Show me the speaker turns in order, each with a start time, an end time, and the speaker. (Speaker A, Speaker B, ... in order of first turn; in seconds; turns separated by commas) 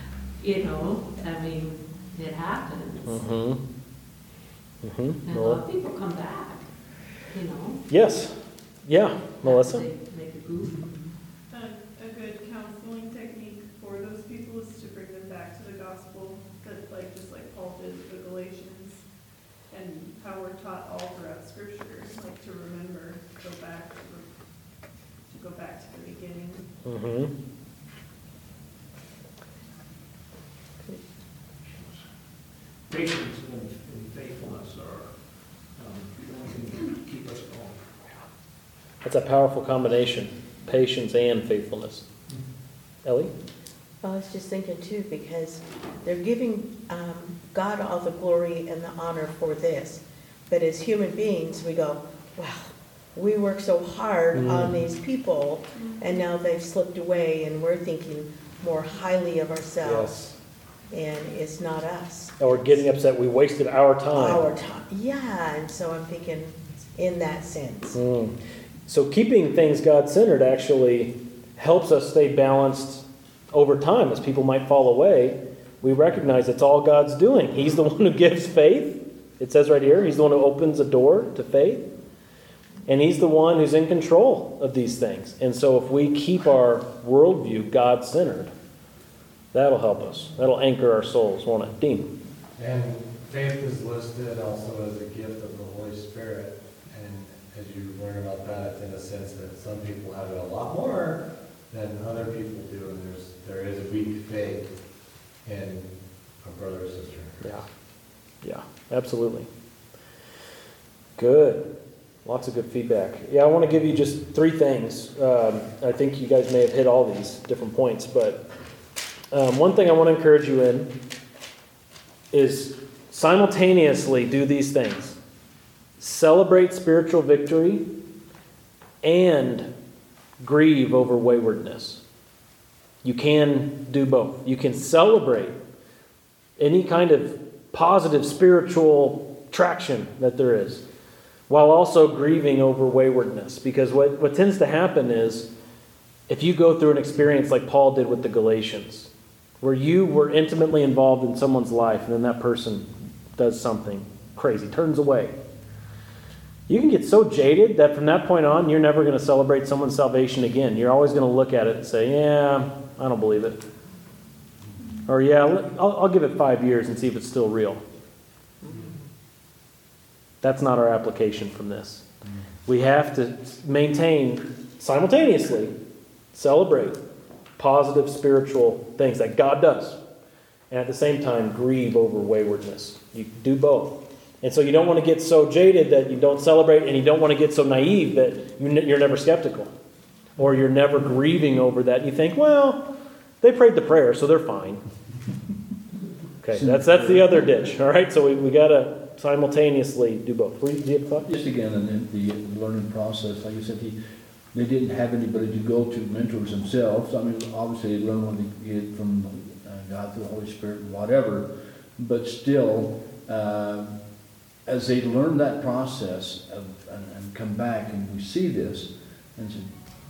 Speaker A: 0.4-3.3, Speaker B: 3.0-3.6, Speaker B: 4.8-5.6, Speaker A: 5.2-6.7, Speaker A: 7.3-7.8, Speaker B: 7.9-9.8, Speaker A: 9.4-10.9, Speaker C: 11.5-19.0, Speaker C: 19.7-24.3, Speaker C: 25.2-26.7, Speaker B: 26.8-27.3, Speaker D: 31.6-32.0, Speaker D: 32.9-38.1, Speaker B: 39.0-42.0, Speaker B: 43.0-43.3, Speaker E: 44.0-60.1, Speaker B: 54.3-54.8, Speaker C: 55.7-56.2, Speaker B: 59.8-60.3, Speaker E: 60.9-62.4, Speaker B: 62.4-64.4, Speaker E: 64.1-68.0, Speaker B: 67.9-68.3, Speaker B: 68.9-81.8, Speaker B: 82.9-88.5, Speaker B: 89.5-92.1, Speaker F: 92.6-104.7, Speaker F: 105.4-107.4, Speaker B: 107.4-107.7, Speaker B: 108.4-109.5, Speaker B: 111.2-111.7, Speaker B: 112.2-118.5, Speaker B: 119.3-120.9, Speaker B: 122.3-125.2, Speaker B: 126.0-127.8, Speaker B: 129.0-129.7, Speaker B: 130.4-132.0, Speaker B: 133.0-135.6, Speaker B: 136.6-140.8, Speaker B: 141.5-145.5, Speaker B: 146.3-149.1, Speaker B: 149.6-155.3, Speaker B: 156.7-163.6, Speaker B: 165.1-167.8, Speaker B: 170.4-172.0, Speaker B: 172.7-175.7, Speaker B: 176.3-177.0, Speaker B: 177.6-180.0, Speaker B: 180.7-189.7, Speaker B: 190.4-192.9, Speaker B: 193.4-194.8, Speaker B: 196.4-201.3, Speaker G: 196.5-197.4, Speaker G: 201.2-203.9, Speaker G: 204.5-213.9, Speaker G: 214.7-219.7